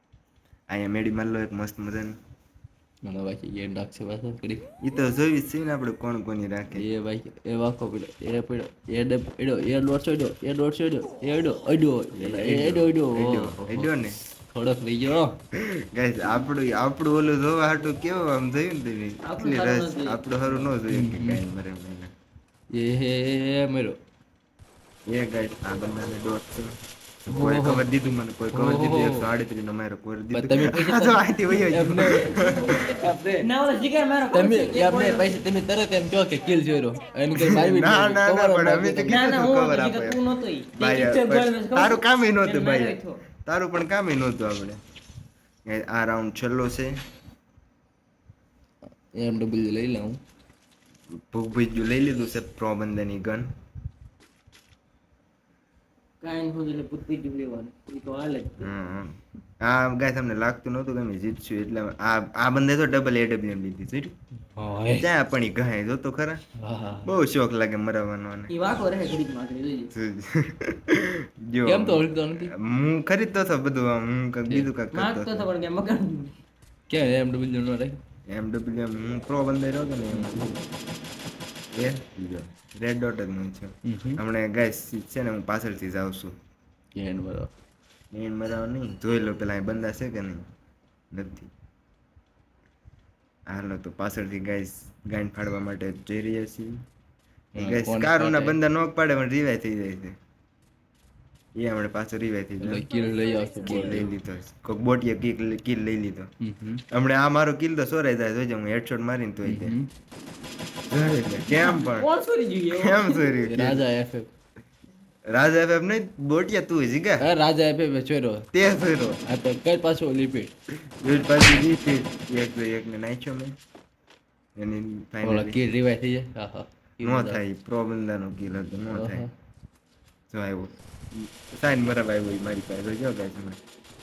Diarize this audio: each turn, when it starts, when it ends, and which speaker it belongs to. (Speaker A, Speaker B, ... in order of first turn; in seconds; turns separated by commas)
Speaker A: 0.7-2.2, Speaker B: 3.0-4.7, Speaker A: 4.8-6.8, Speaker B: 6.7-13.9, Speaker A: 12.1-14.2, Speaker B: 14.5-15.4, Speaker A: 15.6-22.1, Speaker C: 19.2-20.2, Speaker B: 20.9-21.4, Speaker B: 22.7-24.0, Speaker A: 25.1-26.7, Speaker B: 27.3-27.9, Speaker A: 27.3-33.1, Speaker B: 28.5-29.3, Speaker B: 30.3-33.5, Speaker C: 32.3-35.4, Speaker B: 34.3-39.2, Speaker A: 37.4-40.2, Speaker C: 39.1-43.2, Speaker A: 40.8-44.8, Speaker A: 45.7-47.0, Speaker B: 49.1-50.2, Speaker A: 51.2-53.5, Speaker C: 56.2-58.7, Speaker A: 58.6-64.1, Speaker B: 64.5-65.1, Speaker A: 64.9-66.4, Speaker B: 66.6-67.1, Speaker A: 67.0-68.5, Speaker C: 68.5-69.9, Speaker A: 69.9-75.5, Speaker B: 71.7-72.5, Speaker C: 74.9-76.3, Speaker B: 76.9-78.0, Speaker A: 78.3-80.6, Speaker B: 80.1-80.5, Speaker A: 81.7-86.3, Speaker B: 83.8-84.2, Speaker B: 87.0-87.5, Speaker A: 88.1-90.5, Speaker A: 91.1-91.5, Speaker A: 93.5-96.7, Speaker B: 97.5-98.6, Speaker A: 97.6-100.2, Speaker A: 101.6-102.8, Speaker B: 102.6-104.1, Speaker A: 103.7-106.3, Speaker B: 106.4-106.8, Speaker A: 106.9-109.8, Speaker B: 109.5-109.9, Speaker A: 110.9-112.1, Speaker C: 111.5-113.4, Speaker A: 112.7-113.8, Speaker B: 113.4-114.3, Speaker A: 115.3-117.2, Speaker B: 117.2-118.5, Speaker A: 118.5-119.2, Speaker B: 119.3-120.5, Speaker A: 121.0-123.5, Speaker A: 124.6-125.6, Speaker B: 125.2-127.4, Speaker A: 127.0-129.2, Speaker B: 128.9-129.3, Speaker A: 130.3-133.6